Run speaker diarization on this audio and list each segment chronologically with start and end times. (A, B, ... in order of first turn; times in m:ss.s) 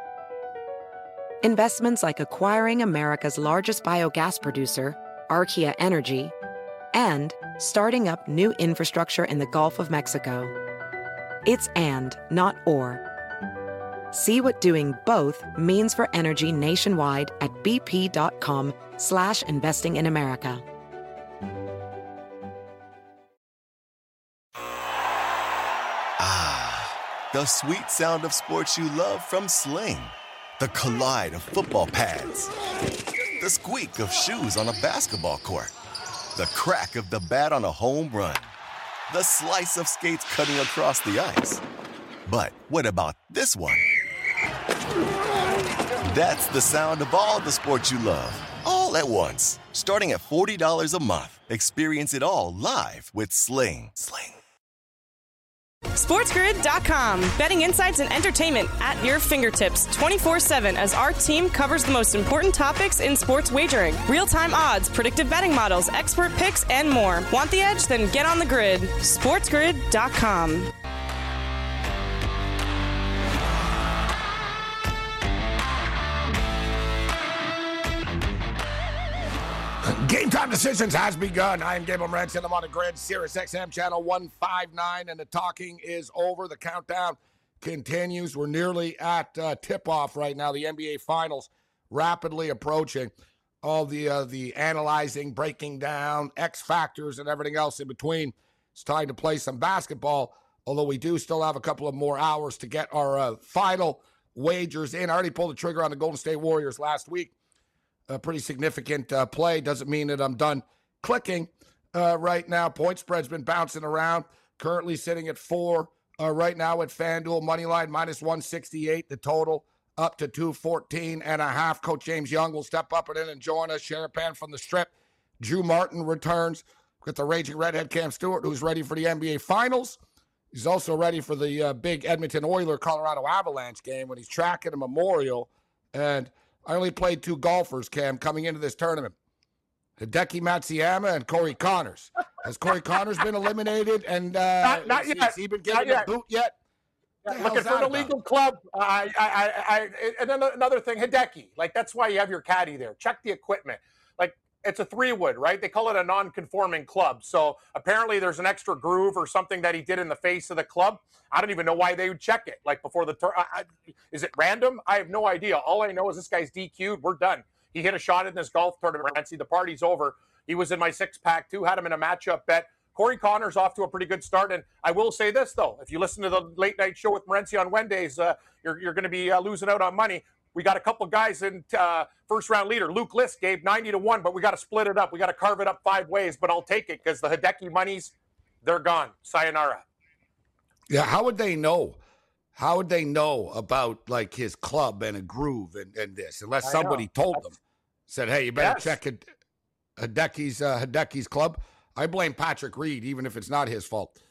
0:01.4-0:06.3 A
0:06.9-0:10.5 A
0:11.4-0:13.0 A
0:14.1-0:20.6 A
0:26.2-0:32.5 B
0:33.4-0:35.7 B
0:36.4-0:38.5 B
0:39.1-0:41.6 B
0:42.3-0:44.0 B
0:45.9-0:54.4 B
0:55.9-1:10.7 C
1:19.8-1:47.3 D
1:48.1-2:10.0 D
2:10.5-2:19.2 D
2:20.0-2:26.6 D
2:24.6-2:26.1 E
2:27.3-3:09.8 E
2:27.3-2:28.1 D
3:10.9-3:12.0 D
3:12.6-3:17.6 D
3:16.6-3:17.4 E
3:18.1-3:19.3 D
3:18.6-3:19.0 E
3:20.0-3:24.2 D